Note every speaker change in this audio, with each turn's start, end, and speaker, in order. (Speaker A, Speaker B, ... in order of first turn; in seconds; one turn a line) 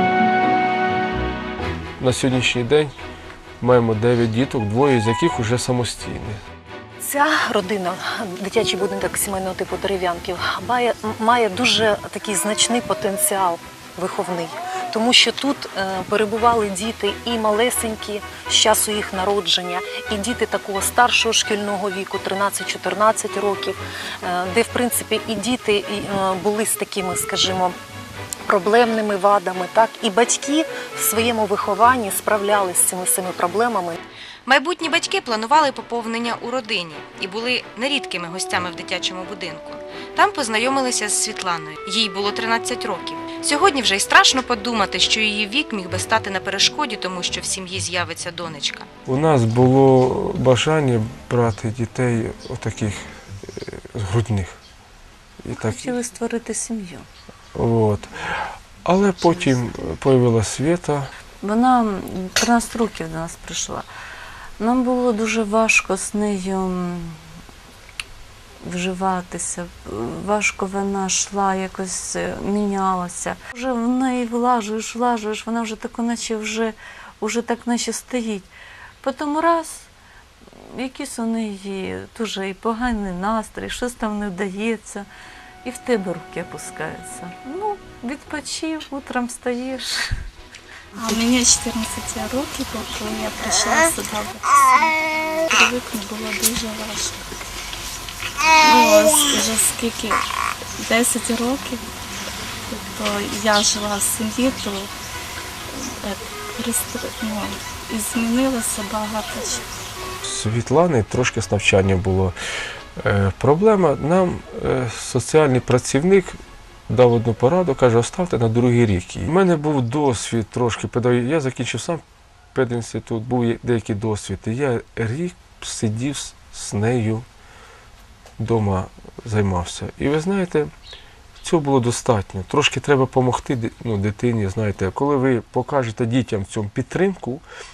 Speaker A: 2.0-2.9
Speaker A: 3.6-6.4
Speaker B: 7.0-27.8
Speaker B: 28.4-34.0
Speaker C: 34.5-48.9
Speaker A: 49.0-54.6
Speaker A: 55.4-56.0
Speaker D: 55.5-57.1
Speaker A: 57.5-58.3
Speaker A: 58.8-61.1
Speaker D: 61.4-63.9
Speaker D: 64.6-67.2
Speaker D: 68.6-79.9
Speaker D: 80.6-85.1
Speaker D: 85.6-90.1
Speaker E: 91.0-97.3
Speaker E: 98.4-100.2
Speaker E: 100.8-101.8
Speaker E: 102.7-104.9
Speaker E: 105.7-109.6
Speaker A: 110.2-112.3
Speaker A: 113.0-122.0
Speaker A: 122.5-127.2
Speaker A: 128.4-130.7
Speaker A: 131.4-137.4